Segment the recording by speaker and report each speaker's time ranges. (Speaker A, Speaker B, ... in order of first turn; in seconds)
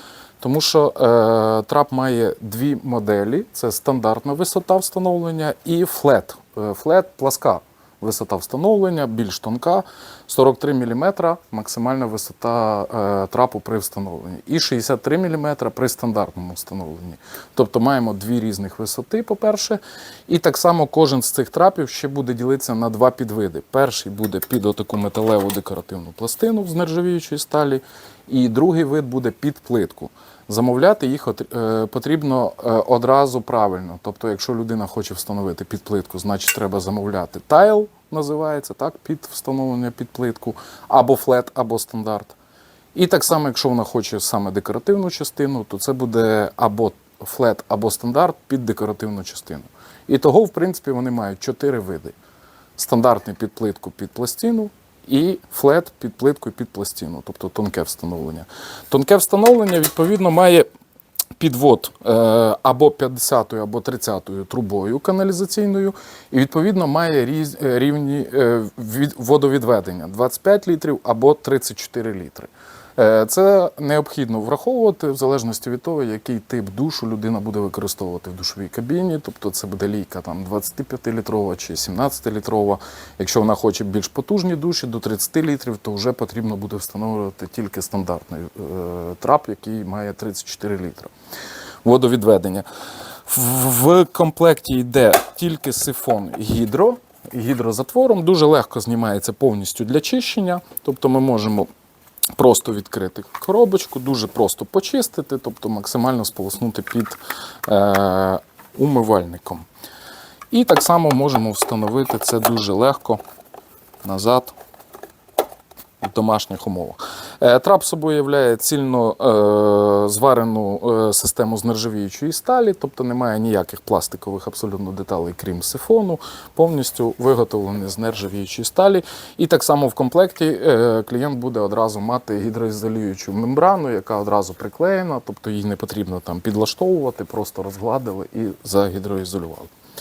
Speaker A: 0.4-42.4, 42.9-52.1, 52.8-60.6, 61.4-91.1, 91.8-92.7, 93.3-101.7, 102.4-109.7, 110.5-113.2, 114.0-114.5, 116.0-139.7